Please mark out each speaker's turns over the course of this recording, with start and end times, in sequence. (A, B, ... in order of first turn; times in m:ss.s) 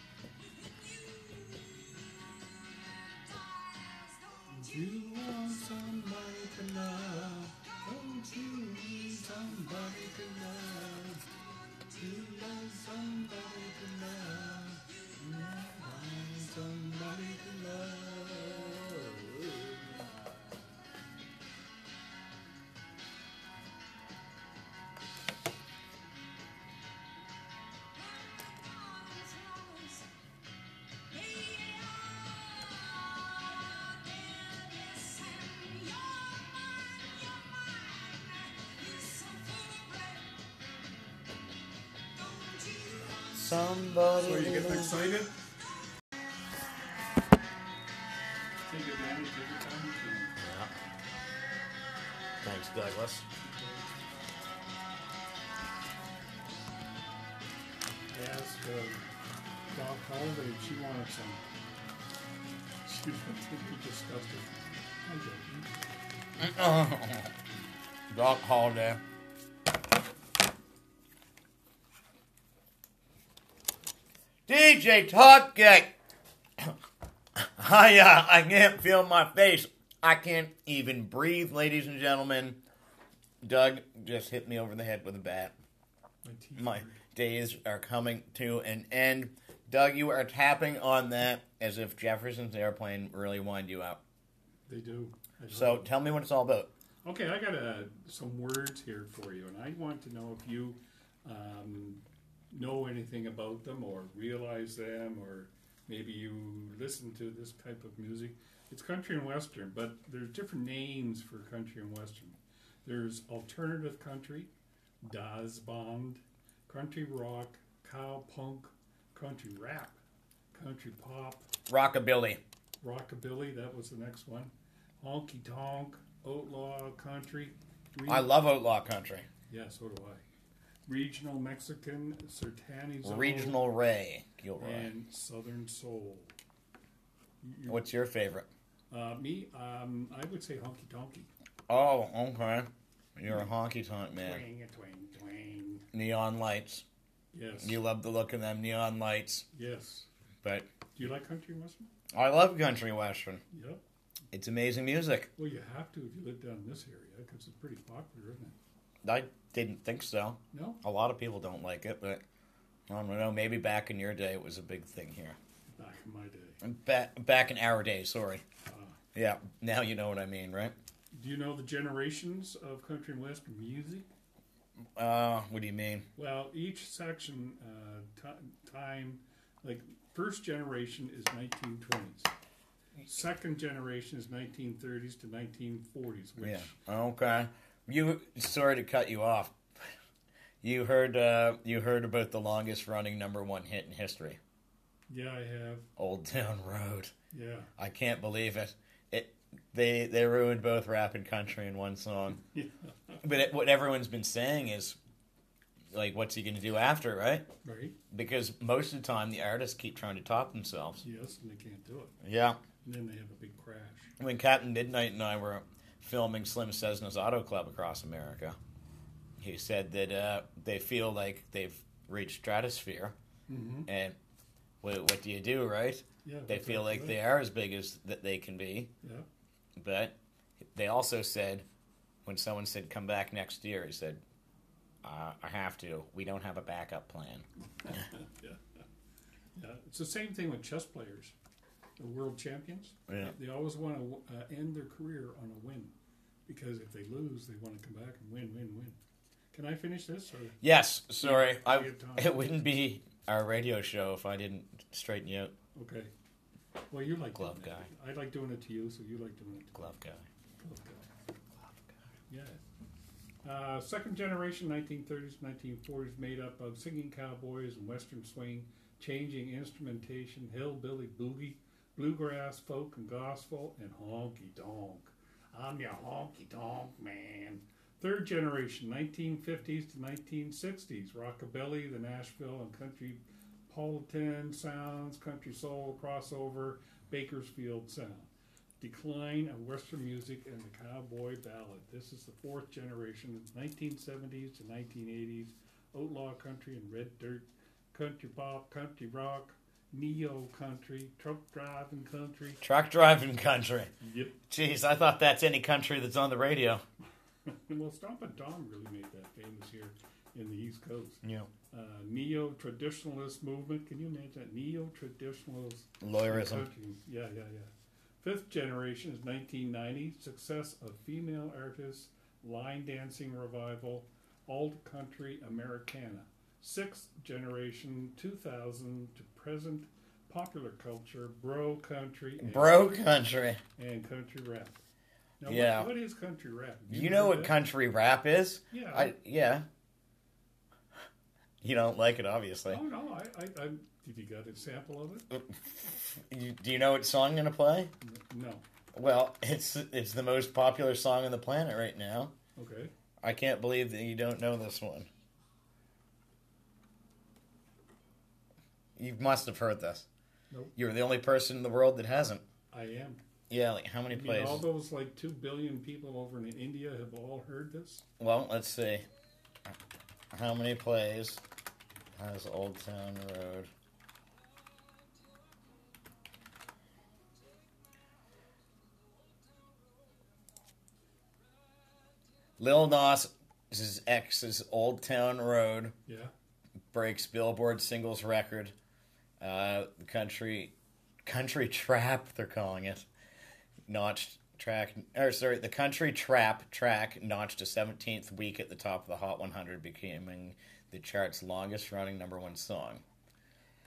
0:00.4-0:06.0 A
0:04.5-0:11.3 B
0:07.6-0:10.3 A
0:11.2-0:12.0 A
0:11.9-0:20.0 B
0:14.9-0:15.2 A
0:27.9-0:30.1 A
0:31.1-0:40.4 A
0:42.1-0:44.1 A
0:43.4-0:45.1 C
0:44.2-0:45.3 B
0:48.7-0:50.4 B
0:50.4-0:50.7 C
0:52.4-0:53.2 C
0:53.4-0:53.9 B
0:58.1-0:59.0 B
0:59.7-1:01.4 B
1:02.8-1:05.7 B
1:06.4-1:07.3 C
1:08.1-1:09.0 C
1:14.5-1:15.9 C
1:17.4-1:22.6 C
1:23.4-1:25.5 C
1:26.2-1:27.0 B
1:26.6-1:34.0 C
1:34.7-1:35.8 B
1:35.5-1:36.7 C
1:37.0-1:54.5 B
1:55.0-2:00.0 B
2:00.5-2:01.5 B
2:01.7-2:02.4 C
2:02.8-2:08.3 B
2:08.0-2:09.3 C
2:09.5-2:10.2 B
2:10.9-2:13.6 B
2:13.0-2:14.9 C
2:14.6-2:16.3 B
2:17.4-2:17.9 B
2:17.7-2:18.5 C
2:18.9-2:21.3 B
2:21.7-2:24.4 C
2:24.1-2:25.8 B
2:25.9-2:26.8 C
2:27.3-2:27.8 B
2:27.6-2:29.4 C
2:29.5-2:30.1 B
2:30.4-2:30.7 C
2:30.9-2:31.9 B
2:32.1-2:33.4 C
2:33.5-2:33.8 B
2:34.3-2:35.3 C
2:35.4-2:38.6 B
2:39.0-2:42.2 C
2:40.5-2:40.8 B
2:42.9-2:45.4 C
2:45.7-2:46.6 B
2:46.6-2:48.4 C
2:48.6-2:49.0 B
2:49.1-2:50.7 C
2:51.1-2:54.1 B
2:55.0-2:56.0 C
2:56.2-3:02.3 B
3:03.0-3:06.7 B
3:06.4-3:09.9 C
3:10.6-3:14.4 C
3:15.1-3:15.9 B
3:16.0-3:17.1 C
3:17.3-3:17.7 B
3:17.8-3:22.4 C
3:22.4-3:23.2 B
3:23.2-3:25.0 C
3:25.9-3:27.5 C
3:27.6-3:28.0 B
3:28.1-3:31.0 C
3:31.0-3:32.1 B
3:32.2-3:32.6 C
3:32.8-3:34.1 B
3:34.2-3:38.6 C
3:39.4-3:43.2 C
3:43.5-3:43.9 B
3:43.9-3:44.2 C
3:44.8-3:48.9 C
3:46.2-3:47.2 B
3:49.0-3:49.3 B
3:49.8-3:51.6 C
3:52.2-3:54.2 C
3:55.0-3:57.4 C
3:57.8-3:58.8 B
3:59.5-4:01.3 B
4:02.0-4:05.9 B
4:03.1-4:03.3 C
4:06.5-4:09.0 B
4:09.5-4:10.6 B
4:10.6-4:15.5 C
4:11.2-4:12.5 B
4:15.7-4:16.1 B
4:16.9-4:19.8 B
4:17.3-4:17.9 C
4:19.7-4:20.2 C
4:20.6-4:21.0 B
4:21.6-4:22.0 C
4:22.3-4:22.6 B
4:23.4-4:48.3 B
4:48.8-5:02.6 B
5:02.6-5:03.9 C
5:04.0-5:04.4 B
5:04.5-5:06.8 C
5:07.4-5:33.0 B
5:11.2-5:11.5 C
5:16.0-5:16.7 C
5:32.4-5:33.6 C
5:33.8-5:34.8 B
5:35.4-5:37.5 B
5:35.4-5:35.9 C
5:36.9-5:39.6 C
5:38.7-5:39.1 B
5:41.6-5:42.8 C
5:42.7-5:45.3 B
5:45.3-5:47.9 C
5:48.0-5:48.6 B
5:48.9-5:52.3 C
5:52.6-5:52.9 B
5:53.2-5:55.1 C
5:59.0-6:00.1 C
6:00.8-6:02.4 C
6:02.7-6:03.2 B
6:03.5-6:04.6 C
6:04.1-6:08.0 B
6:08.2-6:09.1 C
6:10.3-6:11.4 C
6:12.1-6:13.7 C
6:22.6-6:26.0 C
6:26.1-6:26.3 B
6:26.9-6:28.7 C
6:29.4-6:33.1 C
6:33.9-6:43.0 C